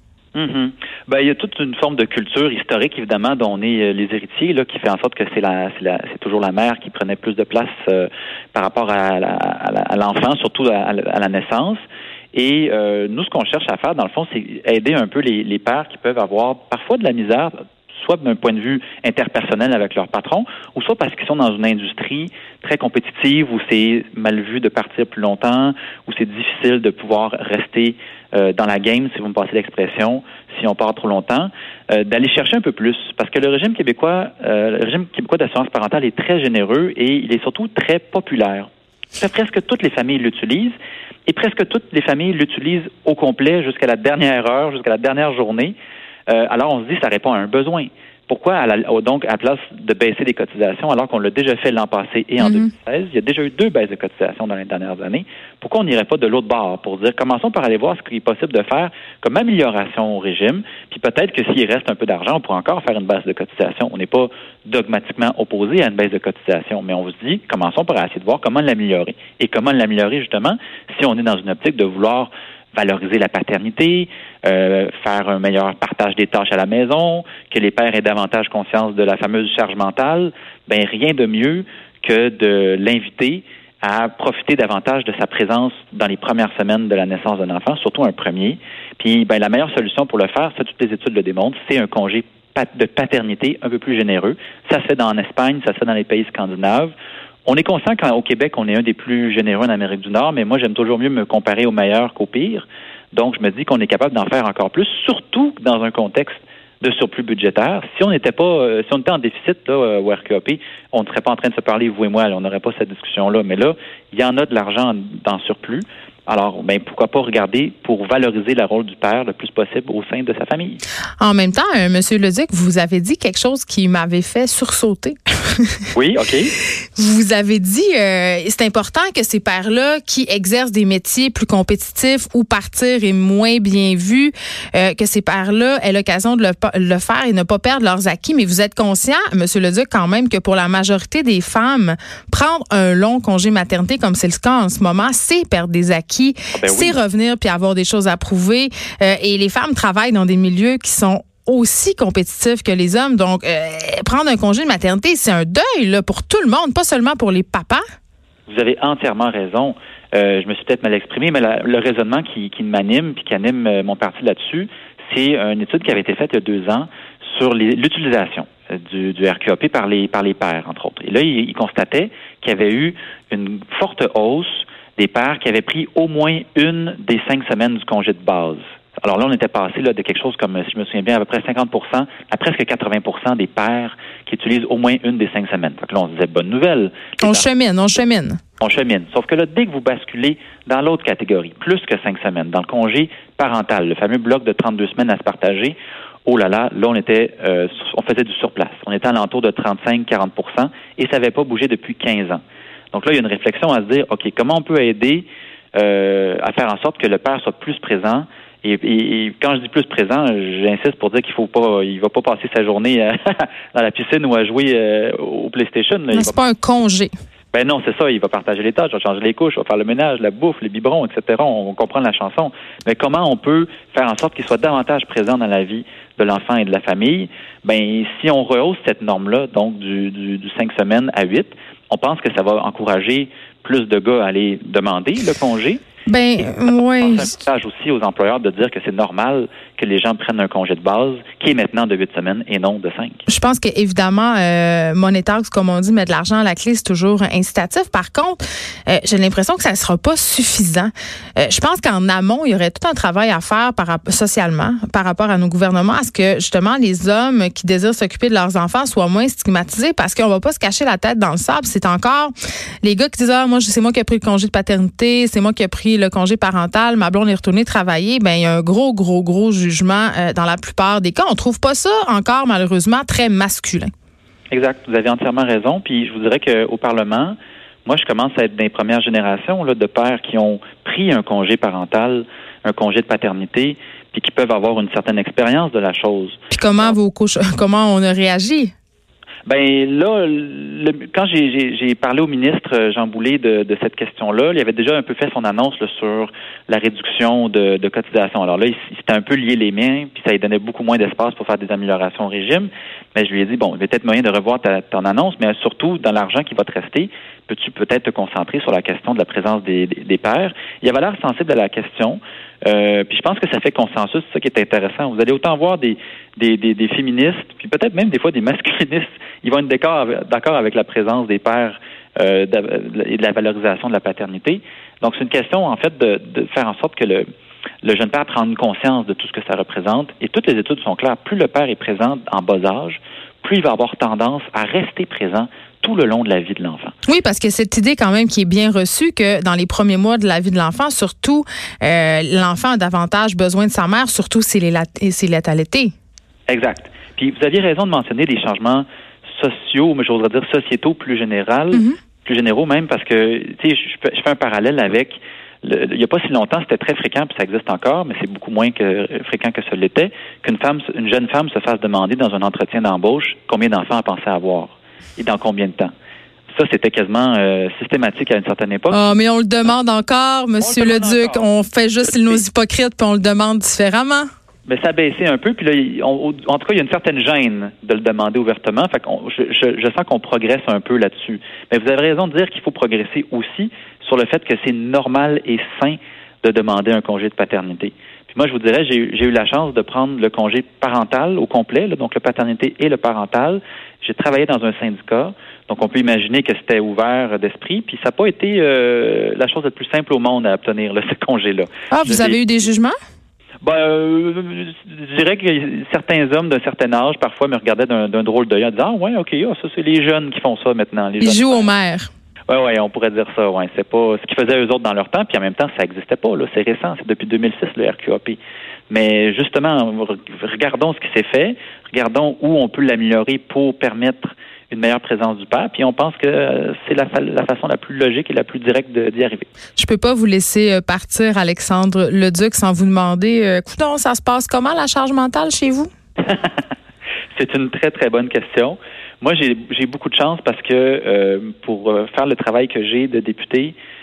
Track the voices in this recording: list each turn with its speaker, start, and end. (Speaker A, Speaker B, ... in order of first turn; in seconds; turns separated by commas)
Speaker A: 0.3-11.8, Speaker A: 12.3-40.7, Speaker A: 41.3-45.7, Speaker A: 46.3-96.9, Speaker B: 52.4-52.7, Speaker A: 97.5-120.8, Speaker B: 121.2-125.8, Speaker A: 126.0-126.5, Speaker B: 126.9-157.8, Speaker A: 146.5-147.0, Speaker A: 158.5-187.5, Speaker B: 187.2-188.4, Speaker A: 188.6-202.4, Speaker A: 202.9-216.3, Speaker B: 216.1-217.1, Speaker A: 217.5-235.8, Speaker B: 236.1-237.3, Speaker A: 237.0-243.2, Speaker B: 243.3-273.9, Speaker A: 274.5-286.9, Speaker B: 286.5-288.7, Speaker A: 289.4-327.3, Speaker A: 327.8-336.9, Speaker B: 337.1-345.9, Speaker A: 346.5-365.9, Speaker A: 366.5-369.1, Speaker B: 368.9-374.3, Speaker A: 370.6-371.5, Speaker A: 372.0-372.4, Speaker A: 374.7-402.4, Speaker B: 401.9-402.9, Speaker A: 403.6-411.7, Speaker B: 411.2-412.1, Speaker A: 412.5-418.4, Speaker A: 418.9-429.4, Speaker B: 429.8-435.9, Speaker A: 436.2-436.6, Speaker A: 437.3-443.7